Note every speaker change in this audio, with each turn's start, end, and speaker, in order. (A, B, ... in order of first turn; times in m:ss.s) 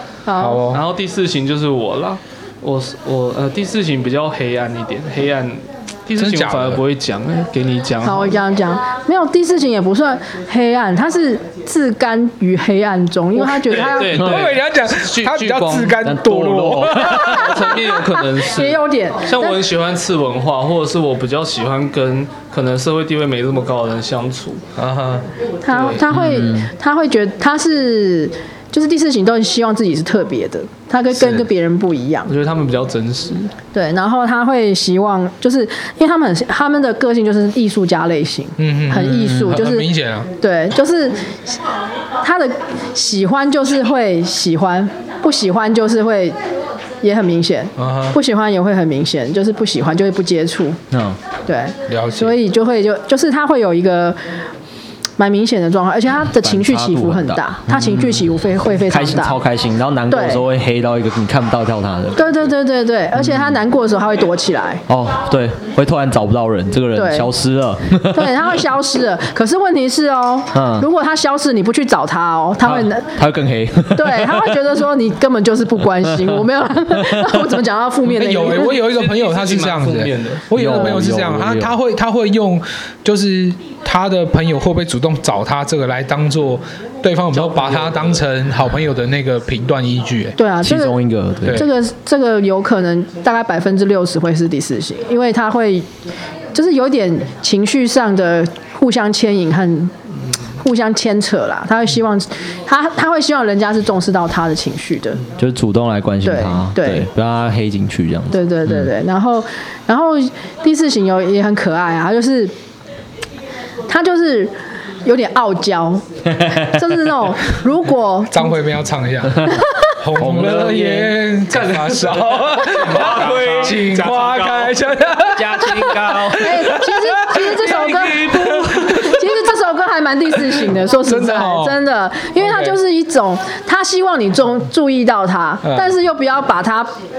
0:00.3-0:00.6 A
0:00.4-0:00.8 B
0:00.7-0:08.3 C
0:06.2-0:06.8 B
0:08.0-0:14.3 A
0:13.4-0:16.0 C
0:14.1-0:17.4 B
0:16.0-0:17.5 D
0:17.0-0:24.6 C
0:17.1-0:19.6 A
0:24.8-0:25.3 B
0:25.6-0:32.3 A
0:25.7-0:26.1 C
0:26.1-0:26.7 D
0:31.2-0:31.4 B
0:32.3-0:33.5 C
0:33.7-0:41.6 A
0:38.6-0:40.3 B
0:42.2-0:46.4 A
0:47.0-0:50.8 A
0:47.8-0:48.2 B
0:50.9-0:51.2 D
0:51.5-0:54.2 A
0:51.9-0:52.4 B
0:55.2-0:59.4 A
0:56.3-0:58.3 D
0:58.8-1:02.5 D
1:00.1-1:00.4 A
1:02.2-1:04.8 A
1:03.2-1:03.6 D
1:04.9-1:08.5 D
1:07.0-1:07.3 A
1:08.0-1:13.2 A
1:10.5-1:10.9 D
1:12.6-1:14.7 D
1:13.9-1:18.8 A
1:16.1-1:17.6 D
1:18.1-1:30.4 B
1:18.3-1:20.5 C
1:20.5-1:21.7 D
1:27.3-1:28.2 C
1:30.4-1:31.0 A
1:30.6-1:31.7 D
1:31.4-1:31.7 B
1:31.5-1:35.9 A
1:36.5-1:39.9 A
1:40.5-1:45.2 A
1:45.4-1:48.9 D
1:46.2-1:47.1 A
1:48.3-1:52.5 A
1:53.9-1:54.5 A
1:55.0-1:58.5 A
1:56.4-1:56.7 D
1:58.3-2:07.5 B
1:59.4-1:59.6 D
2:00.2-2:01.2 D
2:01.5-2:04.8 C
2:05.3-2:06.6 D
2:06.3-2:16.9 A
2:07.6-2:09.2 C
2:08.2-2:09.0 B
2:11.0-2:11.8 B
2:12.4-2:12.8 B
2:15.6-2:16.0 B